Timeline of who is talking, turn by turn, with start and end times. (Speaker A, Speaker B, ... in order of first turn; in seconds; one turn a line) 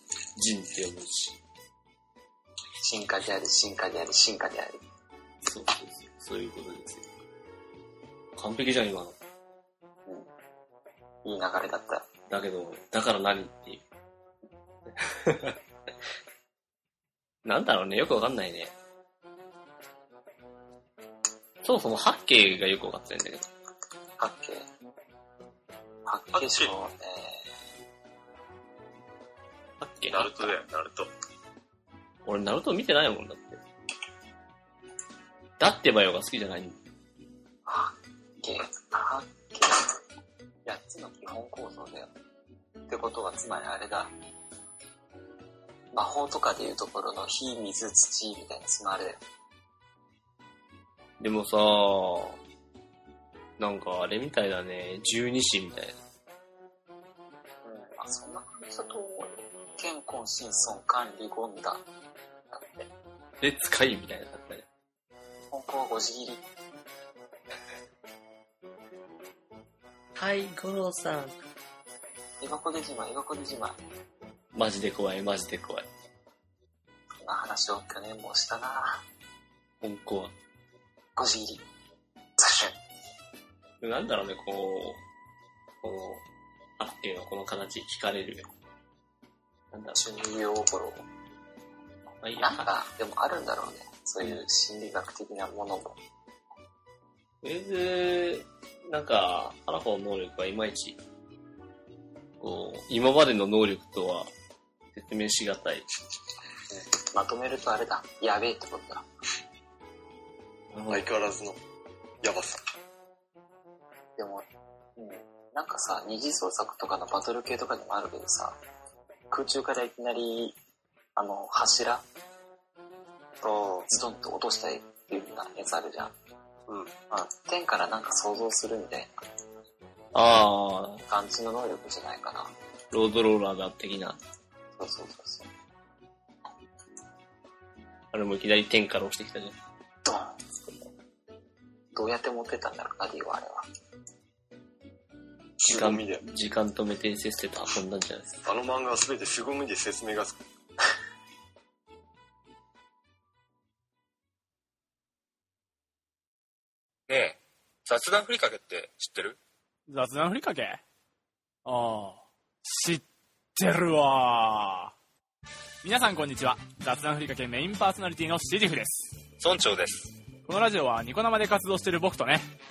Speaker A: 0.4-1.4
Speaker B: 2.8-4.8
Speaker A: 5.4-7.1
Speaker A: 8.4-9.2
Speaker B: 11.2-12.1
Speaker A: 12.3-13.8
Speaker A: 14.9-15.6
Speaker A: 17.4-18.7
Speaker A: 21.6-23.5
Speaker B: 24.2-24.7
Speaker B: 26.1-27.5
Speaker C: 26.3-26.7
Speaker A: 29.8-30.5
Speaker C: 30.1-31.1
Speaker A: 32.2-33.6
Speaker A: 35.6-36.8
Speaker B: 37.7-39.9
Speaker B: 40.7-42.1
Speaker B: 42.9-44.1
Speaker B: 45.9-49.2
Speaker A: 51.2-52.4
Speaker A: 53.6-56.0
Speaker B: 57.6-61.8
Speaker B: 62.5-62.9
Speaker A: 63.4-64.7
Speaker B: 65.5-66.4
Speaker A: 70.2-71.4
Speaker B: 72.4-73.8
Speaker A: 74.5-75.9
Speaker B: 77.2-79.0
Speaker A: 79.8-80.3
Speaker B: 81.2-81.7
Speaker B: 82.4-82.8
Speaker A: 83.8-85.0
Speaker A: 85.8-86.2
Speaker A: 86.8-88.5
Speaker A: 89.7-90.0
Speaker B: 89.9-91.1
Speaker A: 92.2-92.7
Speaker B: 92.4-96.0
Speaker A: 97.4-101.0
Speaker A: 102.4-104.3
Speaker A: 104.9-105.8
Speaker B: 106.7-109.1
Speaker A: 110.7-111.1
Speaker C: 110.9-111.6
Speaker C: 112.2-112.6
Speaker B: 114.2-114.5
Speaker B: 115.0-118.6
Speaker B: 119.3-120.6
Speaker B: 121.2-122.0
Speaker C: 123.4-123.9
Speaker B: 123.9-126.1
Speaker B: 127.1-129.2
Speaker A: 130.1-131.0
Speaker B: 131.1-132.5
Speaker A: 132.9-134.2
Speaker B: 134.8-135.5
Speaker A: 138.1-139.6
Speaker B: 140.0-140.8
Speaker B: 141.9-143.6
Speaker C: 145.6-146.2
Speaker A: 145.7-148.4
Speaker C: 148.4-150.4
Speaker D: 157.1-159.4
Speaker E: 159.9-160.8
Speaker E: 161.7-163.0
Speaker E: 163.6-164.9
Speaker E: 165.8-169.2
Speaker D: 169.4-170.2
Speaker E: 170.5-172.5